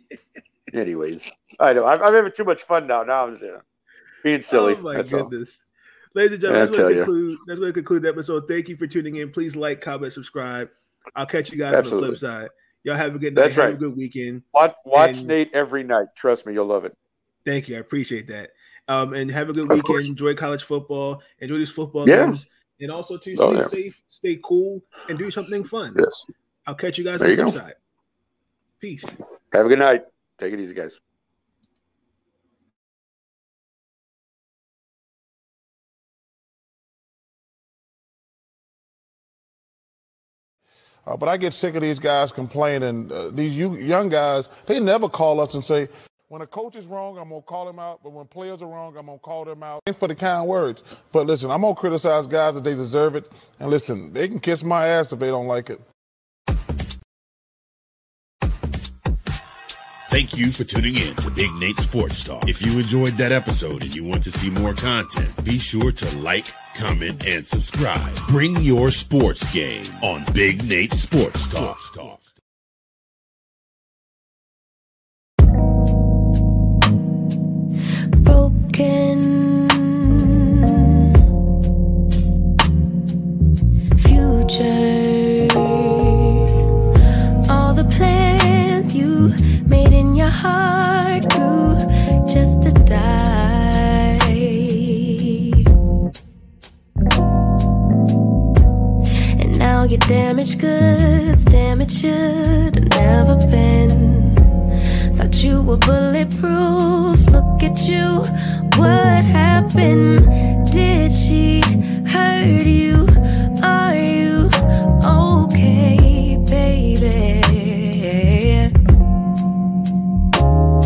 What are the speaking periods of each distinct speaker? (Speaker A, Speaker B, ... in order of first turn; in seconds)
Speaker A: 0.7-3.6, 4.2-5.3, 6.5-7.1, 11.7-12.2, 13.3-13.8, 14.5-16.9, 19.7-20.0, 22.0-22.4, 23.3-23.7, 26.0-26.2, 27.2-27.6, 29.5-31.0
Speaker B: 4.5-5.6, 6.1-15.3, 17.4-26.1, 26.7-27.8, 28.8-29.2
Speaker C: 41.0-55.8
Speaker D: 60.1-72.3
Speaker E: 78.2-81.1, 84.0-86.4, 87.5-95.6, 99.4-104.4, 105.1-118.7